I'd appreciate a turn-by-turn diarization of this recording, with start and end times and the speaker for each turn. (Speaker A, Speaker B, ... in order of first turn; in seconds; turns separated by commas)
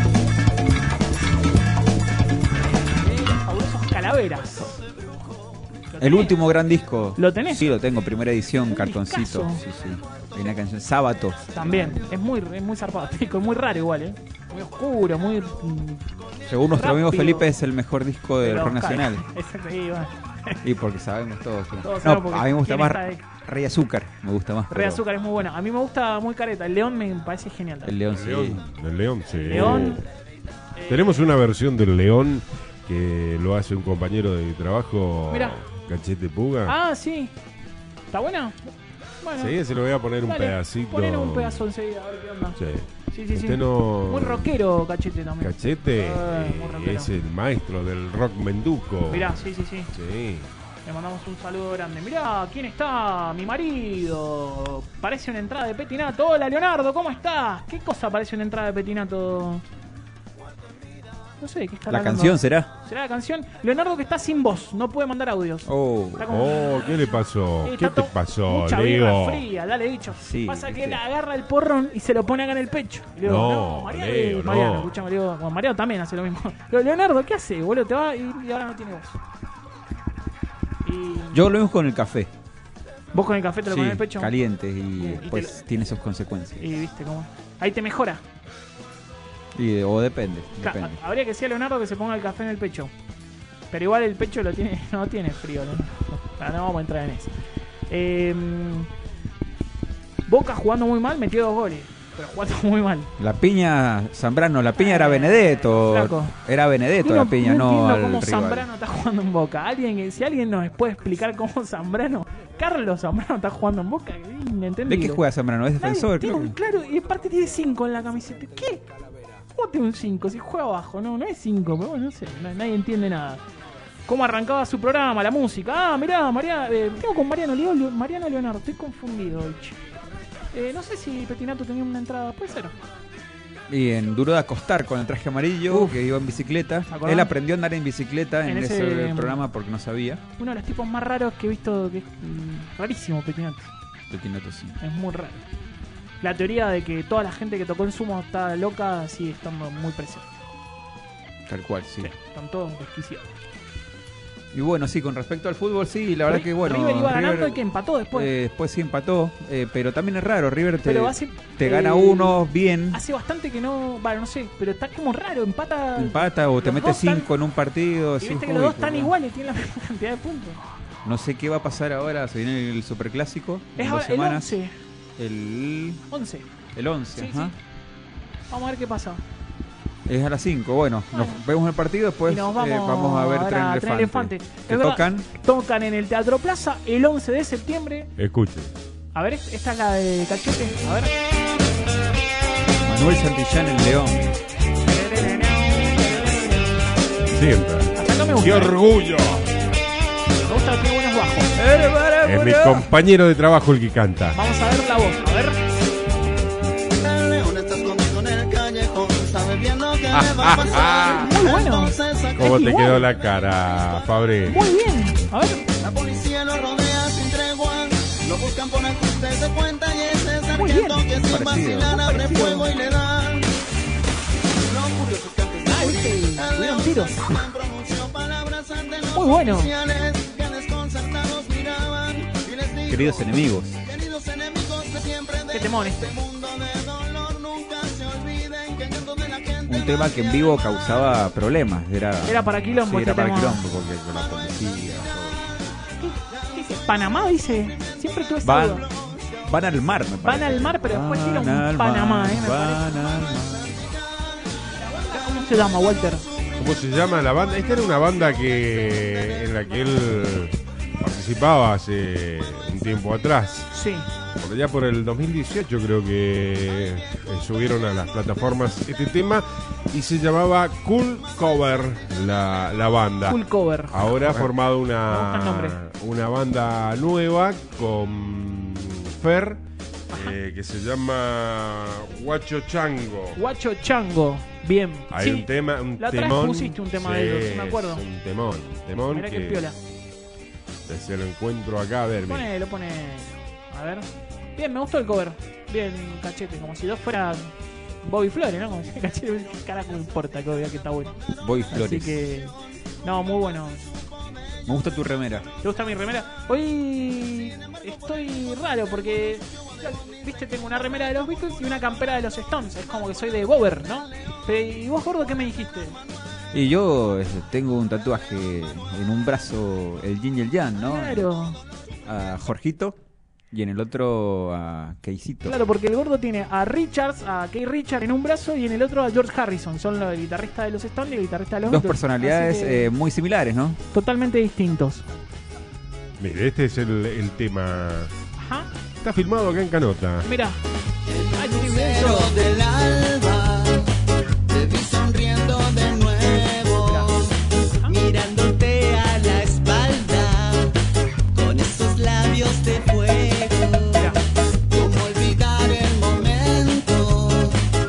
Speaker A: 2.8-4.8, Speaker A: 5.9-6.4, Speaker B: 6.0-12.0, Speaker A: 7.2-7.7, Speaker A: 8.7-9.6, Speaker A: 11.5-16.1, Speaker B: 16.5-19.2, Speaker A: 16.7-17.5, Speaker A: 18.4-20.6, Speaker B: 20.6-25.0, Speaker A: 21.8-23.2, Speaker A: 24.7-27.9, Speaker B: 27.8-28.6, Speaker C: 28.1-30.0, Speaker A: 29.4-30.0, Speaker B: 29.5-29.9, Speaker A: 30.8-31.3, Speaker C: 30.9-36.8, Speaker A: 35.3-35.6, Speaker A: 36.6-37.3, Speaker A: 38.1-38.6, Speaker A: 39.2-39.6, Speaker C: 39.4-41.7, Speaker A: 40.2-47.1, Speaker C: 42.6-44.6, Speaker C: 45.4-50.5, Speaker A: 49.1-49.9, Speaker A: 50.8-59.6, Speaker A: 61.4-79.2, Speaker B: 61.9-62.7, Speaker B: 65.7-66.3, Speaker C: 66.2-69.4, Speaker B: 70.2-71.0, Speaker C: 73.2-75.0, Speaker A: 80.8-81.5, Speaker B: 81.3-82.3, Speaker A: 83.1-84.3, Speaker B: 83.7-86.8, Speaker A: 84.9-85.6, Speaker A: 86.6-88.2, Speaker B: 89.5-91.0, Speaker A: 90.6-92.9, Speaker A: 93.7-97.3, Speaker A: 97.9-98.9, Speaker A: 100.3-103.1, Speaker B: 103.2-108.7, Speaker A: 104.8-106.3, Speaker A: 107.0-115.2, Speaker B: 114.9-116.5, Speaker A: 115.8-118.8, Speaker A: 119.5-123.4, Speaker A: 124.1-129.8, Speaker A: 130.5-132.7, Speaker B: 133.7-140.2, Speaker A: 135.7-136.0, Speaker A: 136.9-137.3, Speaker A: 138.4-139.4, Speaker A: 140.4-143.7, Speaker B: 144.1-144.8, Speaker A: 144.8-145.4, Speaker A: 146.2-150.3, Speaker B: 151.5-152.1, Speaker A: 152.0-153.3, Speaker B: 154.5-157.6, Speaker A: 156.3-158.3, Speaker B: 158.1-163.0, Speaker A: 160.8-167.3, Speaker B: 166.0-169.1, Speaker A: 168.2-170.6, Speaker B: 171.0-174.5, Speaker A: 173.8-174.7, Speaker B: 175.2-176.0, Speaker A: 176.1-176.5, Speaker B: 176.7-177.5, Speaker A: 177.2-177.5, Speaker A: 178.5-179.2, Speaker B: 180.1-185.3, Speaker A: 181.1-181.4, Speaker A: 182.3-188.1, Speaker C: 188.2-188.7, Speaker A: 189.1-191.1, Speaker B: 192.8-194.3, Speaker A: 194.8-196.9, Speaker C: 197.3-199.4, Speaker A: 197.9-198.8, Speaker A: 200.4-201.5, Speaker B: 201.6-202.9, Speaker C: 202.2-204.4, Speaker A: 204.3-205.6, Speaker D: 206.9-212.9, Speaker C: 210.1-211.3, Speaker A: 210.9-213.1, Speaker C: 212.3-214.6, Speaker D: 213.4-213.9, Speaker A: 214.5-215.6, Speaker D: 215.8-223.5, Speaker A: 220.5-221.1, Speaker B: 221.1-221.9, Speaker A: 221.6-222.7, Speaker D: 224.6-240.6, Speaker A: 225.6-227.4, Speaker A: 229.1-229.7, Speaker B: 232.9-233.8, Speaker A: 235.5-236.2, Speaker B: 239.7-245.4, Speaker A: 242.2-243.6, Speaker A: 246.0-248.8, Speaker B: 248.4-248.9, Speaker B: 249.4-253.8, Speaker A: 250.2-253.0, Speaker A: 254.8-256.3, Speaker C: 256.6-263.7, Speaker A: 263.7-264.1, Speaker C: 264.4-283.4, Speaker A: 273.2-274.4, Speaker A: 275.1-275.8, Speaker A: 280.1-280.4, Speaker A: 283.4-288.0, Speaker C: 285.1-289.6, Speaker A: 289.1-289.8, Speaker C: 290.9-292.5, Speaker A: 292.2-297.5, Speaker A: 298.0-301.2, Speaker B: 301.4-302.2, Speaker A: 301.7-303.8, Speaker B: 304.6-305.5, Speaker A: 305.6-316.0, Speaker B: 316.5-321.2, Speaker A: 320.8-321.6, Speaker B: 322.1-323.0, Speaker B: 323.5-325.6, Speaker A: 325.4-332.9, Speaker B: 331.7-333.8, Speaker A: 333.9-335.0, Speaker C: 336.2-338.1, Speaker A: 338.4-338.7, Speaker C: 339.0-340.3, Speaker A: 340.2-340.6, Speaker D: 341.1-343.9, Speaker A: 341.3-342.4, Speaker D: 344.5-347.4, Speaker A: 346.8-347.1, Speaker D: 347.9-350.7, Speaker D: 351.3-354.1, Speaker A: 353.9-354.2, Speaker D: 354.7-357.6